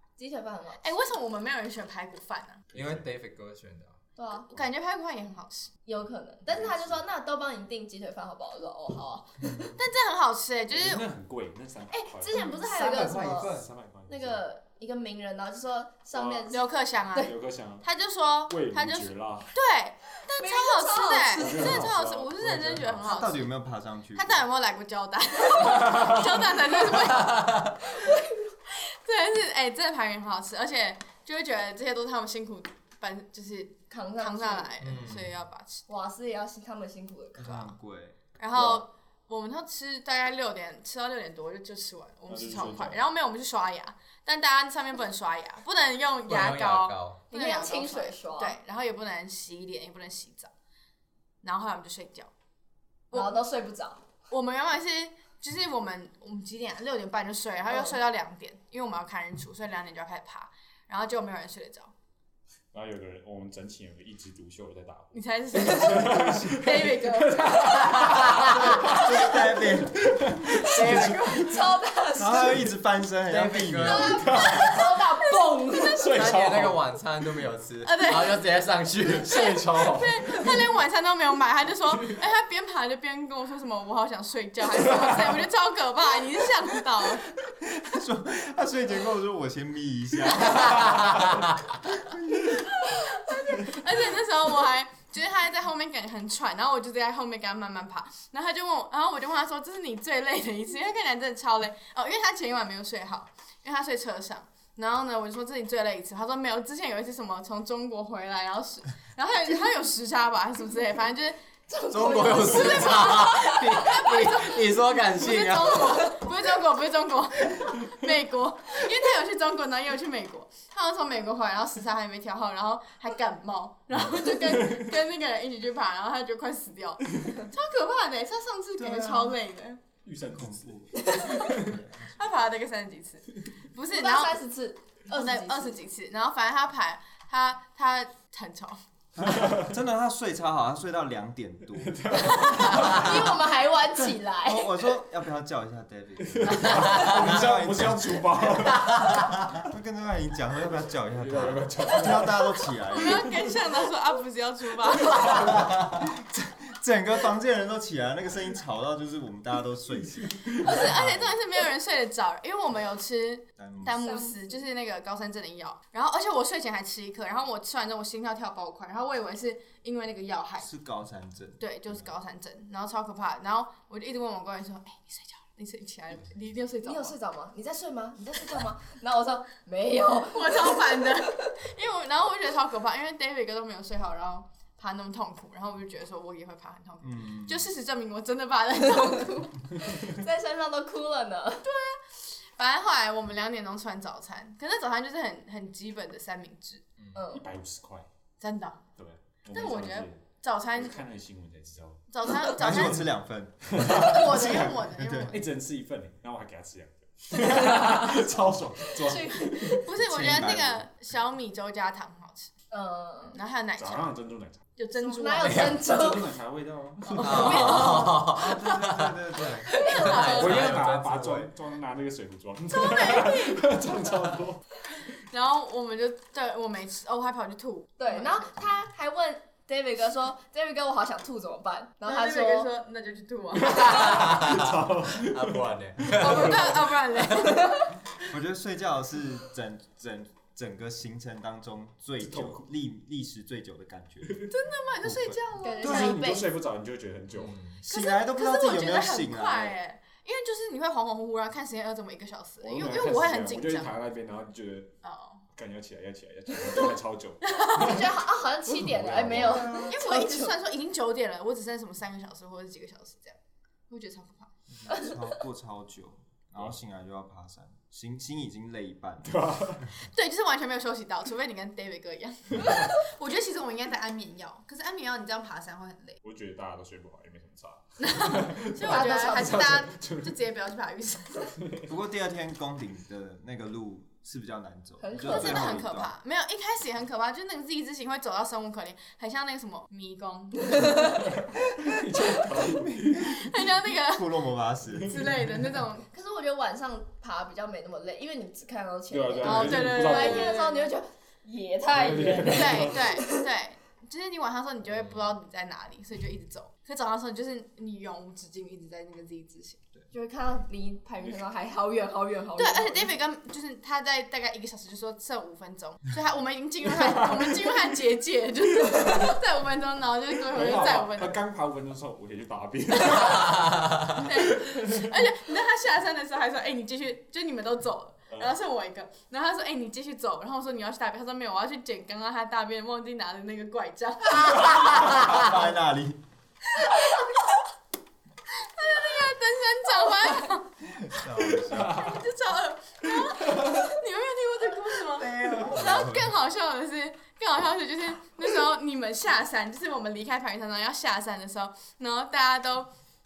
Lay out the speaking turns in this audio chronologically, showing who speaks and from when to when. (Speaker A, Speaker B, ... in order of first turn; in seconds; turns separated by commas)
Speaker A: 0.2-0.8, Speaker B: 0.8-2.6, Speaker C: 2.7-3.0, Speaker D: 2.7-4.0, Speaker A: 4.2-4.5, Speaker B: 4.3-5.7, Speaker A: 5.8-9.7, Speaker C: 6.5-7.0, Speaker B: 9.8-11.1, Speaker C: 10.7-12.4, Speaker A: 11.9-13.5, Speaker B: 12.3-13.1, Speaker D: 12.8-13.7, Speaker C: 13.2-14.4, Speaker A: 14.1-17.3, Speaker C: 16.1-16.5, Speaker B: 16.5-17.3, Speaker C: 17.1-17.9, Speaker B: 17.8-23.5, Speaker C: 18.5-19.5, Speaker A: 20.4-21.8, Speaker C: 21.4-23.1, Speaker E: 23.0-24.4, Speaker B: 24.1-27.9, Speaker A: 27.9-28.5, Speaker B: 28.7-35.8, Speaker A: 33.9-34.7, Speaker D: 34.8-35.3, Speaker A: 35.9-37.7, Speaker E: 37.4-38.2, Speaker B: 38.4-50.5, Speaker C: 42.3-43.0, Speaker D: 46.2-47.2, Speaker A: 47.3-48.6, Speaker B: 51.4-52.3, Speaker B: 53.1-53.4, Speaker A: 53.1-54.0, Speaker B: 54.3-61.9, Speaker A: 57.7-58.0, Speaker C: 62.7-71.6, Speaker B: 65.1-68.9, Speaker E: 68.4-70.6, Speaker A: 70.6-72.7, Speaker D: 70.8-71.1, Speaker B: 70.9-71.3, Speaker E: 72.1-74.2, Speaker D: 73.3-74.5, Speaker A: 73.8-76.1, Speaker C: 74.0-75.0, Speaker B: 75.2-76.2, Speaker C: 75.9-76.8, Speaker D: 76.1-79.6, Speaker B: 77.8-78.5, Speaker C: 79.1-80.4, Speaker B: 79.3-87.3, Speaker E: 87.7-91.2, Speaker E: 91.9-92.6, Speaker B: 93.1-111.4, Speaker A: 111.7-114.5, Speaker D: 111.9-116.0, Speaker B: 112.2-129.8, Speaker A: 115.8-116.3, Speaker C: 124.5-124.8, Speaker E: 128.8-129.3, Speaker C: 130.0-131.8, Speaker E: 130.3-132.2, Speaker A: 130.9-131.6, Speaker B: 132.1-134.4, Speaker A: 133.9-135.8, Speaker B: 135.1-138.8, Speaker E: 139.2-143.1, Speaker C: 139.3-139.7, Speaker C: 141.8-143.4, Speaker B: 142.2-142.9, Speaker A: 142.7-144.7, Speaker E: 144.4-148.7, Speaker C: 146.3-149.6, Speaker E: 149.5-153.3, Speaker C: 151.1-152.6, Speaker B: 152.9-155.7, Speaker C: 155.1-155.7, Speaker E: 155.8-161.4, Speaker B: 160.6-170.7, Speaker E: 163.6-164.0, Speaker A: 164.0-164.6, Speaker E: 170.6-172.1, Speaker B: 171.6-177.2, Speaker A: 176.8-181.5, Speaker B: 180.3-189.9, Speaker E: 187.0-187.7, Speaker A: 189.8-191.7, Speaker B: 191.6-196.8, Speaker A: 197.1-197.4, Speaker C: 197.3-198.1, Speaker B: 198.4-198.8, Speaker C: 199.0-202.1, Speaker B: 199.5-201.0, Speaker B: 202.1-203.1, Speaker E: 202.5-205.3, Speaker C: 203.7-204.7, Speaker B: 203.8-205.4, Speaker C: 205.3-209.8, Speaker A: 209.0-209.8, Speaker B: 209.7-212.5, Speaker E: 210.0-210.8, Speaker A: 212.7-213.4, Speaker B: 213.2-214.1, Speaker C: 213.8-214.7, Speaker B: 214.8-215.8, Speaker A: 214.9-216.3, Speaker C: 215.4-218.0, Speaker B: 217.1-218.1, Speaker D: 217.2-221.5, Speaker A: 217.3-218.1, Speaker E: 218.2-219.7, Speaker B: 219.8-220.7, Speaker C: 220.2-224.6, Speaker B: 222.7-223.7, Speaker B: 225.0-228.5, Speaker A: 228.0-232.7, Speaker B: 232.0-234.4, Speaker C: 233.7-237.0, Speaker D: 233.8-237.3, Speaker B: 236.2-237.9, Speaker E: 238.2-244.5, Speaker C: 242.2-242.6, Speaker B: 244.5-246.0, Speaker E: 245.0-246.2, Speaker A: 245.6-246.5, Speaker C: 245.8-247.6, Speaker D: 247.3-247.8, Speaker B: 247.8-253.9, Speaker E: 247.9-249.8, Speaker C: 252.6-254.9, Speaker B: 255.0-255.4, Speaker C: 255.5-259.7, Speaker B: 257.4-258.0, Speaker A: 257.7-260.5, Speaker E: 259.3-259.9, Speaker B: 259.7-263.4, Speaker B: 263.9-264.5, Speaker E: 264.7-269.4, Speaker C: 269.2-269.9, Speaker B: 270.0-276.2, Speaker C: 276.2-280.4, Speaker B: 278.0-281.6, Speaker A: 278.8-279.6, Speaker C: 281.6-281.9, Speaker E: 281.9-286.1, Speaker A: 285.0-285.8, Speaker B: 285.2-291.1, Speaker C: 291.0-293.3, Speaker B: 293.3-294.3, Speaker E: 294.1-295.2, Speaker B: 295.0-296.1, Speaker A: 296.1-303.5, Speaker C: 299.1-300.6, Speaker B: 299.4-300.9, Speaker C: 301.9-303.1, Speaker B: 302.5-309.8, Speaker A: 310.1-313.2, Speaker B: 312.6-321.4, Speaker C: 320.5-325.0, Speaker B: 323.0-335.3, Speaker E: 334.9-336.2, Speaker B: 336.8-337.2, Speaker B: 338.5-340.8, Speaker E: 341.0-342.1, Speaker C: 341.7-342.2, Speaker B: 341.8-352.9, Speaker E: 345.1-346.3